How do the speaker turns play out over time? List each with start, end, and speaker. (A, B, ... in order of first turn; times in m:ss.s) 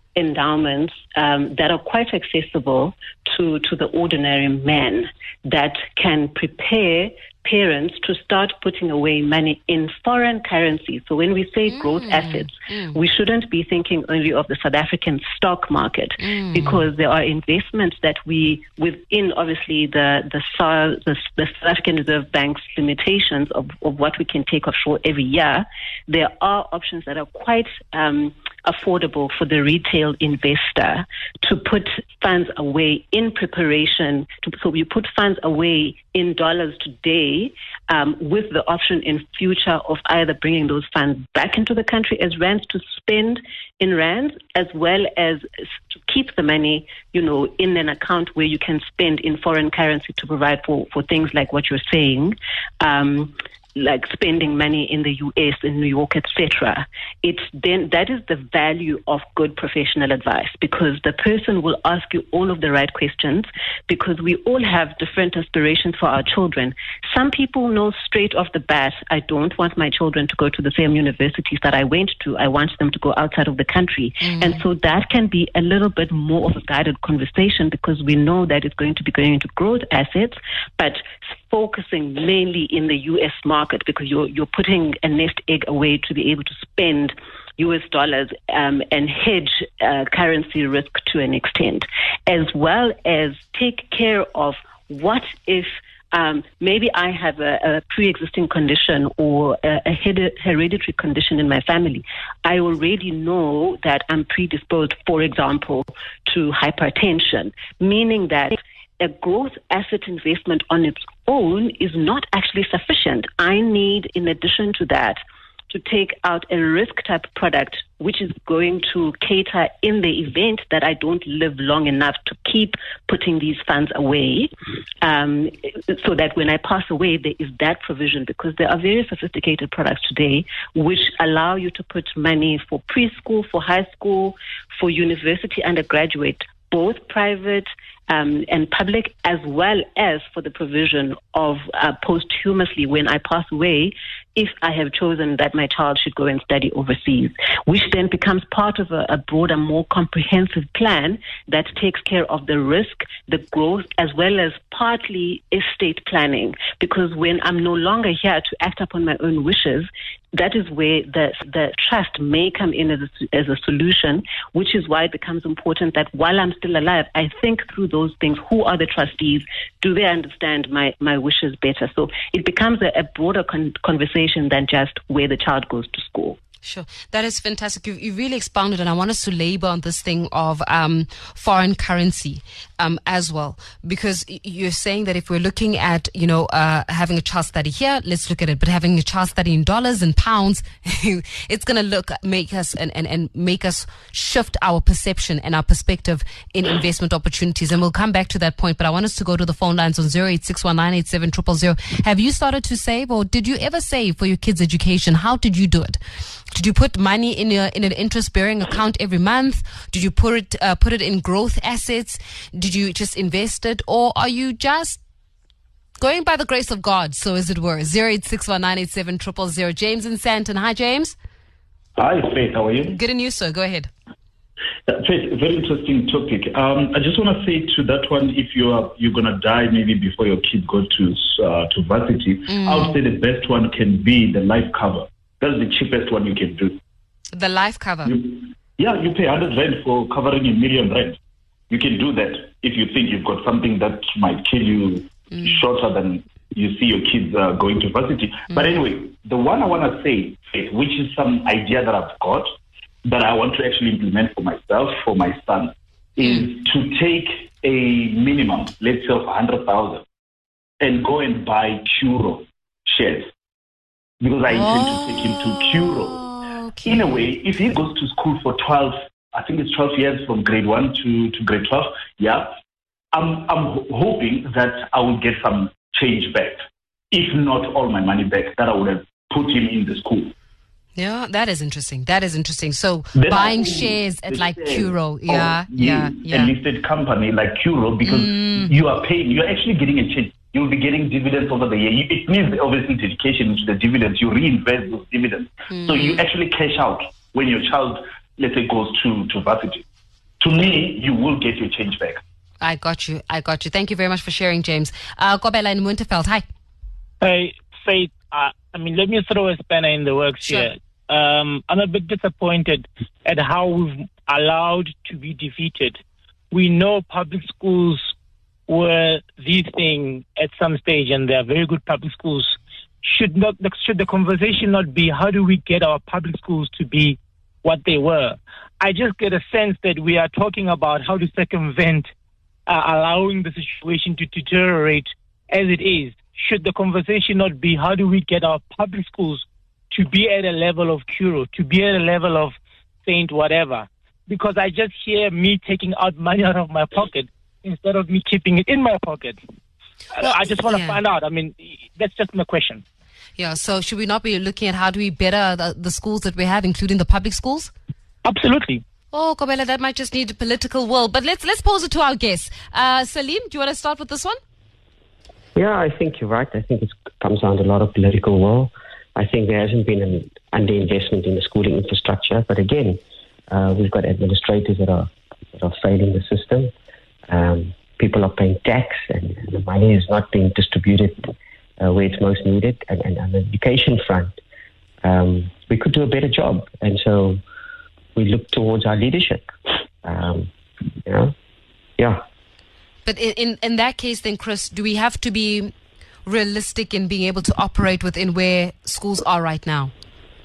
0:00.2-1:55.2 A
0:11.7-0:13.0 B
0:16.2-0:16.8 B
1:14.2-1:14.6 B
1:55.7-2:04.5 A
2:05.0-2:56.4 A
2:56.6-3:35.0 B
3:36.0-3:41.2 B
3:42.0-3:42.9 C
3:42.9-3:43.9 B
3:44.9-3:56.8 C
3:52.5-3:53.0 B
3:57.3-3:58.1 B
3:58.0-4:01.2 C
4:01.7-4:12.5 C
4:13.0-4:20.0 C
4:20.8-4:23.3 C
4:24.2-4:26.2 C
4:24.5-4:27.1 B
4:26.8-4:32.5 C
4:33.1-4:40.3 C
4:41.0-4:46.5 B
4:43.1-4:59.8 C
4:48.0-4:48.7 B
4:55.7-4:56.2 B
5:00.4-5:02.2 C
5:02.6-5:06.4 B
5:07.2-5:18.1 D
5:18.7-5:32.1 D
5:32.7-5:49.4 D
5:50.1-5:52.8 D
5:50.2-5:51.0 B
5:53.4-5:57.7 B
5:58.2-5:58.8 D
5:59.1-6:04.4 B
6:05.5-6:13.0 E
6:13.5-6:16.7 E
6:17.3-6:24.4 E
6:25.0-6:27.4 E
6:28.2-6:29.5 E
6:30.0-6:30.5 E
6:31.0-6:31.3 E
6:33.0-6:35.7 B
6:36.2-6:39.9 B